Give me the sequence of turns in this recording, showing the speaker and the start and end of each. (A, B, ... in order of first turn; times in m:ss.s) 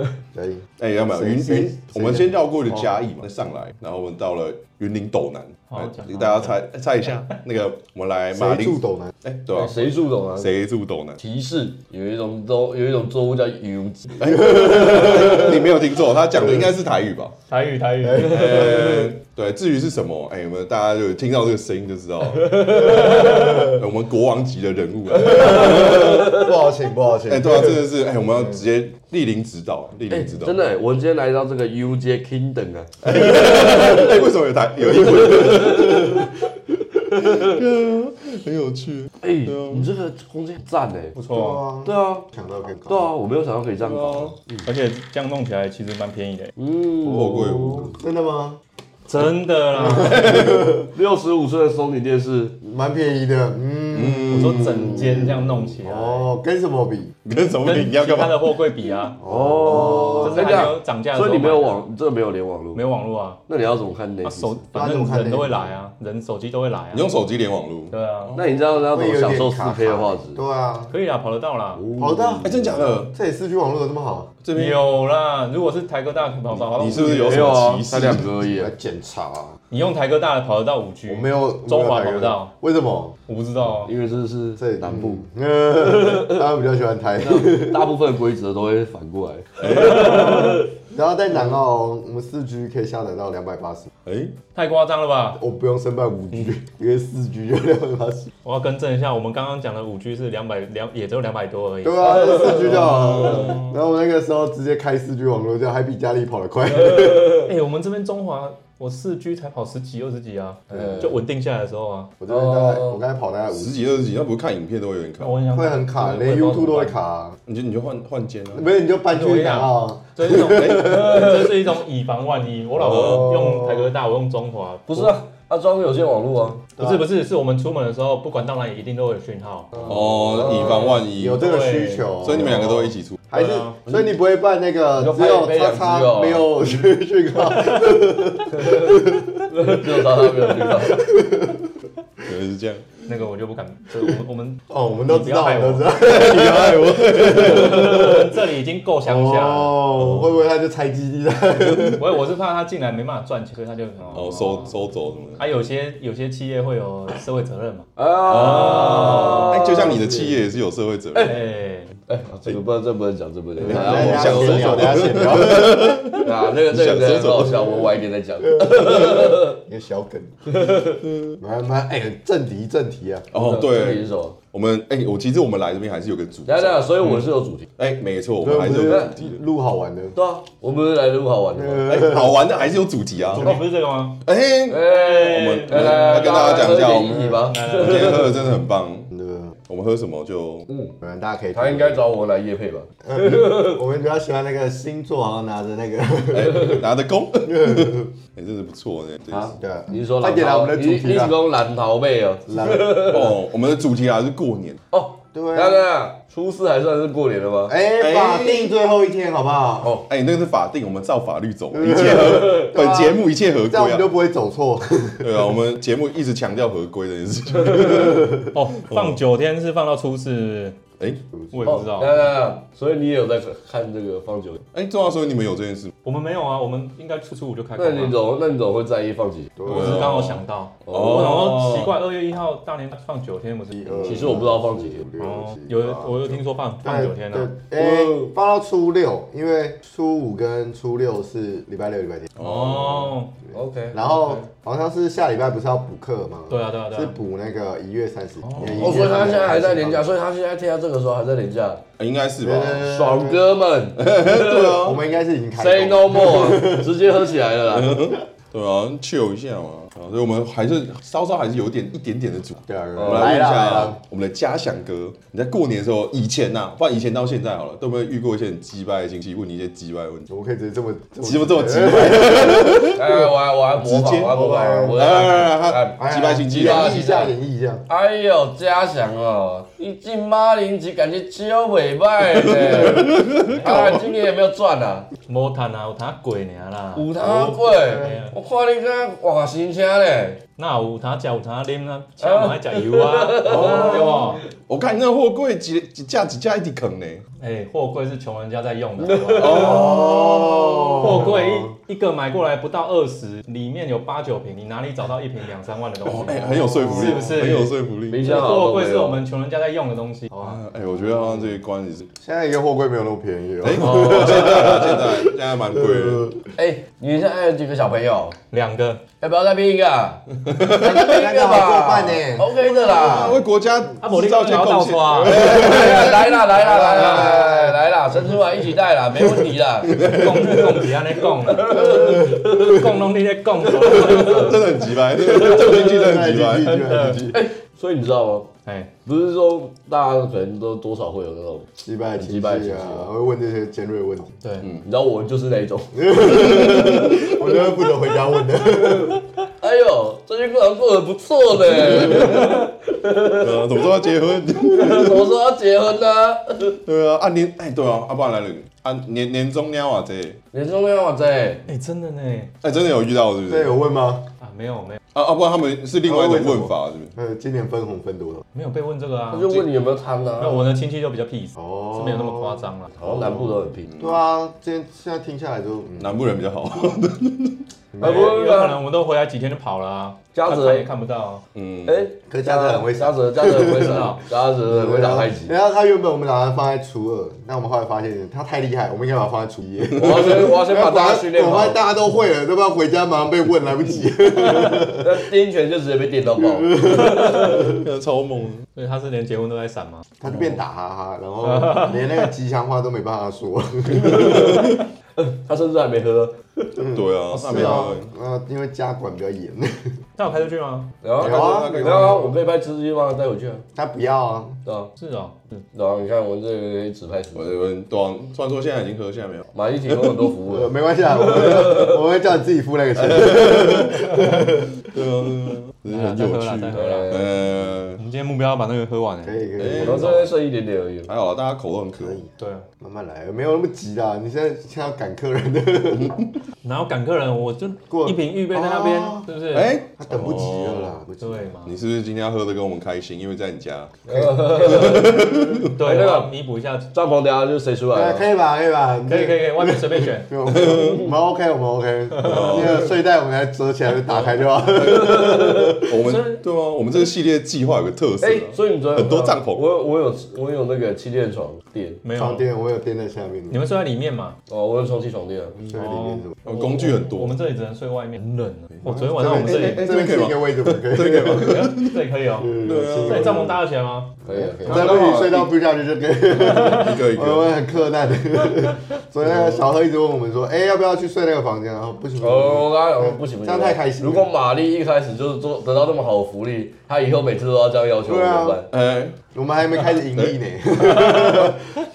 0:00.3-0:02.9 A
0:00.8-0:11.2 B
0:05.7-0:06.6 C
0:08.3-0:09.1 A
0:09.5-0:10.5 D
0:11.2-0:15.5 D
0:14.2-0:17.4 B
0:17.5-0:19.1 C
0:18.1-0:26.4 B
0:22.4-0:23.5 D
0:25.2-0:27.8 A
0:27.3-0:30.6 B
0:30.1-0:34.1 D
0:33.0-0:36.4 B
0:35.0-0:36.2 A
0:37.1-0:39.9 B
0:39.2-0:41.2 D
0:41.1-0:41.6 C
0:41.3-0:43.1 A
0:41.8-0:42.2 D
0:42.9-0:44.7 D
0:43.8-0:44.3 B
0:44.6-0:46.5 C
0:46.6-0:47.9 D
0:47.0-0:47.9 B
0:47.8-0:48.6 A
0:49.1-0:50.3 C
0:49.8-0:50.9 A
0:50.0-0:50.7 B
0:50.5-0:52.6 D
0:52.6-0:57.1 A
0:53.9-0:54.9 B
0:54.3-0:56.3 C
0:57.2-0:58.5 B
0:57.6-0:59.2 C
0:59.2-1:00.7 A
0:59.2-1:02.8 D
1:00.0-1:01.8 C
1:02.7-1:03.4 C
1:03.5-1:04.6 D
1:04.2-1:07.1 C
1:04.7-1:05.8 A
1:06.9-1:08.6 B
1:07.9-1:08.4 C
1:08.4-1:10.4 D
1:08.9-1:10.9 A
1:10.9-1:11.8 C
1:11.8-1:12.9 D
1:12.0-1:12.6 A
1:12.4-1:13.1 B
1:13.1-1:14.3 A
1:14.4-1:14.8 B
1:14.5-1:17.5 C
1:16.8-1:18.4 B
1:17.0-1:18.7 D
1:18.5-1:19.6 A
1:19.7-1:22.5 C
1:21.1-1:23.2 A
1:23.3-1:23.9 C
1:23.8-1:25.2 D
1:24.6-1:27.9 A
1:25.8-1:26.4 D
1:27.2-1:30.7 D
1:29.6-1:30.6 B
1:30.9-1:33.9 A
1:34.1-1:34.3 B
1:34.6-1:35.4 C
1:35.4-1:38.3 A
1:38.4-1:42.5 C
1:41.8-1:47.5 A
1:42.8-1:43.5 B
1:47.4-1:52.1 C
1:50.7-1:51.0 A
1:50.7-1:51.0 D
1:52.2-1:53.8 A
1:52.3-1:53.0 D
1:53.5-1:55.4 B
1:55.2-1:57.0 C
1:55.5-1:57.4 A
1:57.5-1:58.6 B
1:58.5-2:01.5 A
1:59.1-2:05.2 C
2:00.5-2:01.1 B
2:02.8-2:03.9 A
2:02.8-2:03.3 B
2:04.9-2:06.7 D
2:06.8-2:09.8 C
2:09.8-2:11.6 B
2:09.8-2:21.6 A
2:10.4-2:12.2 C
2:12.2-2:13.2 B
2:13.3-2:13.8 C
2:15.0-2:16.5 D
2:18.6-2:18.9 D
2:19.5-2:21.1 D
2:22.2-2:22.9 B
2:23.1-2:25.9 C
2:24.7-2:28.2 A
2:25.9-2:28.1 B
2:27.4-2:29.9 C
2:29.0-2:32.0 A
2:31.9-2:34.7 C
2:34.1-2:35.4 B
2:35.4-2:37.9 C
2:38.0-2:40.2 D
2:38.3-2:41.4 B
2:38.4-2:39.5 C
2:41.2-2:41.4 D
2:41.2-2:41.9 C
2:42.1-2:45.2 D
2:43.6-2:47.9 B
2:43.6-2:46.0 A
2:46.2-2:49.6 D
2:48.4-2:50.5 A
2:50.5-2:51.0 D
2:51.0-2:51.4 B
2:51.4-2:53.3 A
2:53.3-2:57.2 B
2:53.3-2:54.4 D
2:56.5-2:57.7 D
2:57.8-2:59.4 B
2:58.4-3:00.2 A
2:58.7-2:59.1 D
3:00.2-3:02.0 D
3:01.5-3:02.6 A
3:01.9-3:03.6 B
3:03.3-3:03.6 A
3:03.4-3:04.2 C
3:04.2-3:09.1 B
3:04.7-3:08.4 D
3:04.8-3:06.4 C
3:06.8-3:07.4 A
3:07.5-3:08.3 C
3:09.1-3:09.6 A
3:09.7-3:10.7 B
3:10.7-3:10.9 D
3:11.0-3:12.0 A
3:11.5-3:13.8 D
3:13.0-3:16.8 A
3:16.3-3:19.5 B
3:17.5-3:18.0 A
3:19.3-3:23.4 D
3:19.5-3:21.4 A
3:22.5-3:23.2 A
3:23.0-3:24.8 B
3:24.9-3:27.8 D
3:25.3-3:25.8 A
3:27.7-3:30.0 A
3:28.0-3:28.7 B
3:30.1-3:34.1 B
3:31.7-3:33.0 A
3:32.7-3:33.1 D
3:33.7-3:35.5 A
3:35.2-3:39.2 B
3:38.5-3:40.8 C
3:41.3-3:41.8 A
3:41.5-3:42.2 C
3:41.7-3:44.6 D
3:44.7-3:45.9 B
3:46.0-3:48.2 C
3:47.8-3:49.6 D
3:49.6-3:50.2 A
3:49.7-3:53.9 C
3:49.7-3:51.9 B
3:50.9-3:51.4 D
3:53.7-4:02.4 A
3:54.0-3:55.0 D
3:55.2-3:57.5 C
3:57.8-3:58.3 D
4:02.4-4:03.4 C
4:02.4-4:03.2 B
4:03.5-4:04.0 D
4:03.9-4:10.1 A
4:04.0-4:04.4 C
4:06.5-4:07.2 C
4:08.6-4:09.0 B
4:08.6-4:11.8 D
4:12.0-4:12.9 B
4:12.4-4:13.5 A
4:12.8-4:14.8 D
4:14.0-4:15.0 B
4:14.7-4:17.0 A
4:15.6-4:18.1 D
4:17.7-4:30.3 B
4:22.7-4:24.0 A
4:23.0-4:23.5 D
4:30.3-4:33.0 A
4:31.2-4:34.4 B
4:32.9-4:37.3 D
4:34.3-4:35.3 A
4:34.9-4:37.0 B
4:35.9-4:37.9 A
4:37.9-4:45.1 D
4:42.4-4:44.0 B
4:43.6-4:43.9 C
4:45.3-4:47.1 C
4:47.0-4:50.4 D
4:47.2-4:48.2 A
4:48.0-4:48.3 C
4:50.6-4:54.4 C
4:52.2-4:54.2 D
4:53.4-4:57.2 B
4:57.4-5:00.3 C
4:59.0-5:00.0 D
4:59.4-5:01.2 B
5:00.0-5:01.5 A
5:01.0-5:10.6 C
5:06.0-5:08.4 B
5:06.5-5:07.2 A
5:08.1-5:09.2 D
5:10.4-5:12.1 B
5:12.2-5:16.5 A
5:13.6-5:16.3 B
5:13.8-5:14.9 D
5:16.6-5:18.4 D
5:18.5-5:19.0 C
5:19.2-5:23.4 D
5:20.5-5:21.0 B
5:20.7-5:23.4 A
5:22.8-5:26.4 B
5:24.0-5:25.6 C
5:25.3-5:30.6 D
5:26.5-5:27.9 A
5:27.0-5:27.3 C
5:29.9-5:34.8 C
5:30.0-5:30.6 B
5:31.5-5:32.8 D
5:31.9-5:32.7 A
5:33.9-5:37.2 B
5:34.0-5:34.4 D
5:35.1-5:37.4 A
5:36.7-5:37.3 C
5:37.3-5:38.5 D
5:38.7-5:38.9 C
5:39.0-5:43.1 D
5:41.8-5:44.4 A
5:44.4-5:44.7 C
5:44.8-5:47.3 D
5:46.0-5:49.2 A
5:46.7-5:47.1 B
5:49.6-5:53.9 D
5:53.4-5:55.3 B
5:54.7-5:56.8 D
5:56.8-6:00.4 B
6:00.5-6:01.6 D
6:01.7-6:02.6 C
6:02.6-6:03.8 B
6:03.5-6:04.3 A
6:04.4-6:05.0 C
6:05.1-6:07.1 B
6:06.0-6:08.4 A
6:08.5-6:09.6 C
6:09.3-6:10.7 D
6:10.4-6:12.9 C
6:11.6-6:16.1 A
6:13.0-6:13.9 D
6:13.9-6:14.2 B
6:16.0-6:17.6 B
6:17.9-6:18.4 A
6:18.0-6:18.8 D
6:18.0-6:21.4 C
6:20.3-6:20.9 D
6:21.6-6:22.0 B
6:21.9-6:25.5 D
6:22.3-6:35.2 A
6:23.6-6:24.2 C
6:30.0-6:31.8 D
6:34.9-6:37.7 D
6:36.4-6:37.8 A
6:37.1-6:38.6 B
6:38.8-6:40.1 C
6:40.2-6:44.7 A
6:43.9-6:46.7 D
6:46.8-6:49.9 A
6:46.9-6:48.1 B
6:50.2-6:50.9 C
6:51.0-6:53.6 D
6:51.2-6:52.3 B
6:51.2-6:52.3 A
6:53.8-6:54.6 A
6:54.6-6:54.9 D
6:55.0-6:55.6 C
6:55.7-6:57.5 D
6:57.3-7:00.2 B
6:59.5-7:02.0 D
7:00.5-7:04.7 A
7:03.0-7:08.0 B
7:05.9-7:07.2 C
7:06.7-7:07.5 D
7:08.0-7:09.4 C
7:09.2-7:10.3 A
7:09.6-7:10.3 B
7:09.8-7:11.1 D
7:11.1-7:12.2 B
7:12.0-7:12.3 A
7:12.4-7:12.7 C
7:12.8-7:16.2 A
7:16.6-7:19.7 C
7:17.9-7:19.3 A
7:19.5-7:21.0 B
7:20.0-7:21.5 A
7:21.2-7:21.7 C
7:21.7-7:25.7 B
7:24.1-7:26.3 D
7:24.1-7:25.0 A
7:25.7-7:26.9 C
7:26.9-7:28.2 D
7:27.9-7:36.0 A
7:29.1-7:30.3 C
7:30.5-7:31.0 B
7:30.6-7:31.1 D
7:32.2-7:32.6 C
7:32.2-7:32.9 B
7:34.8-7:35.7 D
7:35.8-7:39.6 B
7:36.0-7:36.4 C
7:38.2-7:42.0 D
7:42.0-7:42.4 C
7:42.2-7:43.6 A
7:43.5-7:44.4 C
7:44.5-7:45.6 D
7:45.7-7:46.4 A
7:45.7-7:49.8 C
7:46.4-7:47.4 B
7:48.9-7:51.7 A
7:49.0-7:52.0 B
7:51.4-7:54.1 C
7:52.4-7:53.6 A
7:52.6-7:53.5 B
7:54.2-8:04.3 A
7:54.3-7:55.1 D
7:54.6-7:55.5 B
7:56.4-7:57.5 B
8:02.2-8:08.7 D
8:08.0-8:08.6 A
8:08.7-8:09.2 B
8:09.3-8:11.8 A